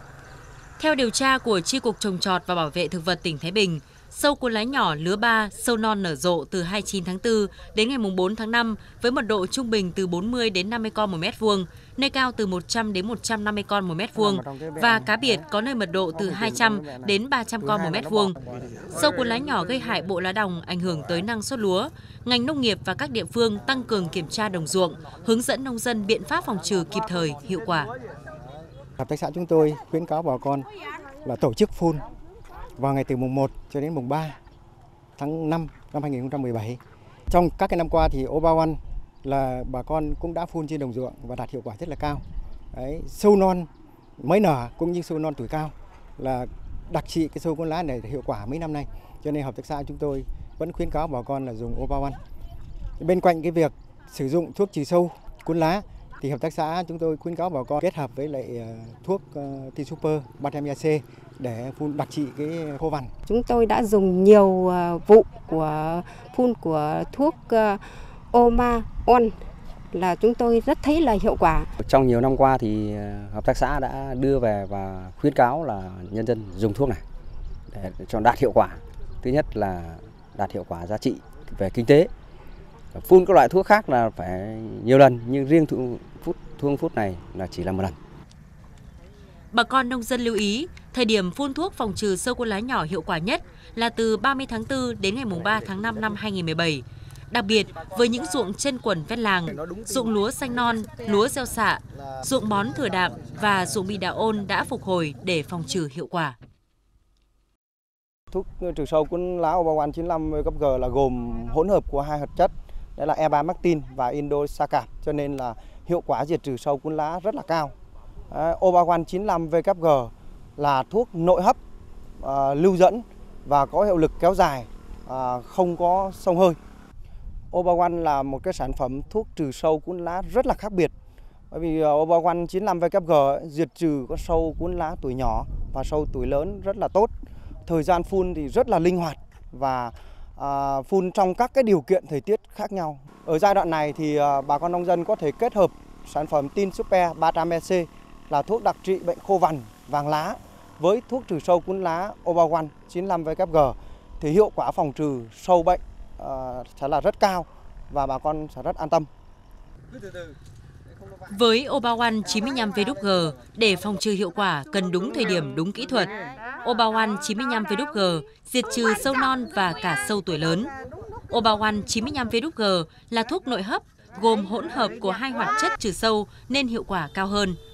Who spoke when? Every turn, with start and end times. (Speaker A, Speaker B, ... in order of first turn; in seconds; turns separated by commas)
Speaker A: 0.8-18.4, Speaker B: 14.2-15.0, Speaker A: 18.9-27.9, Speaker C: 29.0-30.7, Speaker C: 31.2-32.0, Speaker C: 32.8-34.4, Speaker C: 35.2-52.2, Speaker C: 53.0-63.1, Speaker D: 63.3-69.3, Speaker D: 69.9-71.7, Speaker E: 71.8-77.0, Speaker E: 77.7-82.1, Speaker E: 82.9-88.0, Speaker A: 89.5-106.3, Speaker B: 108.3-117.7, Speaker B: 118.3-121.6, Speaker B: 122.2-126.6, Speaker B: 127.5-130.9, Speaker B: 131.5-137.1, Speaker B: 137.7-159.1, Speaker A: 161.3-166.1, Speaker A: 166.6-170.7, Speaker A: 171.3-177.6